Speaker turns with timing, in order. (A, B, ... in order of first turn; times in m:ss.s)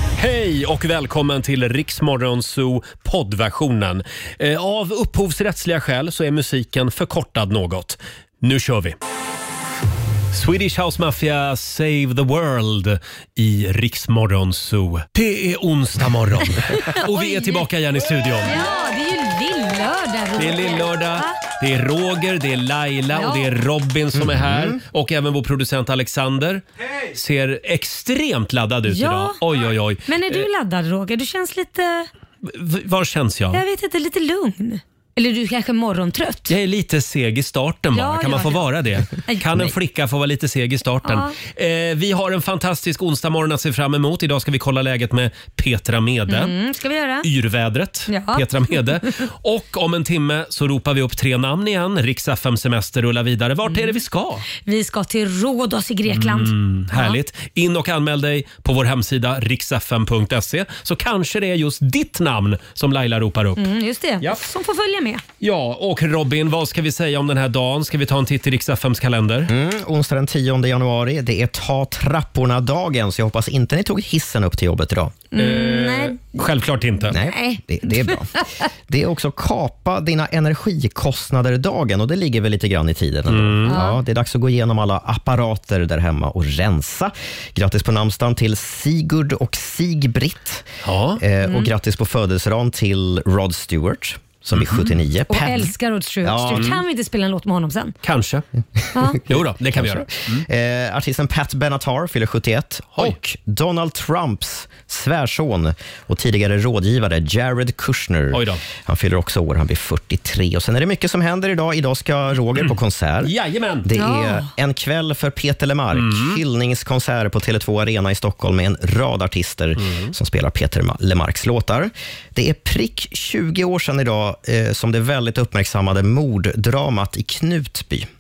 0:00.2-0:09.0 A
0:10.3-0:18.6 A
0:16.7-0:17.7 B
0:18.4-0:21.4 B
0:20.4-0:30.5 A
0:23.1-0:23.5 B
0:24.1-0:24.8 C
0:28.9-0:29.4 B
0:30.1-0:32.1 B
0:32.4-0:33.6 A
0:33.5-0:36.5 B
0:36.5-0:46.6 A
0:37.9-0:39.7 B
0:41.0-0:41.4 B
0:46.3-0:47.3 B
0:47.2-0:54.4 A
0:48.1-0:48.5 B
0:54.6-0:57.2 B
0:56.1-1:03.6 A
1:03.6-1:05.2 B
1:05.4-1:09.5 A
1:09.5-1:15.1 C
1:15.3-1:16.4 B
1:15.4-1:17.2 A
1:17.1-1:18.6 B
1:17.1-1:36.7 C
1:23.3-1:23.8 A
1:23.7-1:24.0 B
1:30.8-1:31.2 A
1:31.4-1:31.7 B
1:34.5-1:34.9 A
1:35.3-1:38.0 B
1:36.4-1:36.8 A
1:38.0-1:38.4 A
1:38.9-1:39.2 B
1:39.2-1:53.3 C
1:39.3-1:40.4 A
1:48.3-1:48.6 A
1:53.2-1:53.9 A
1:53.8-2:08.1 C
1:54.0-1:54.5 B
1:55.9-1:56.4 A
1:59.8-2:00.1 A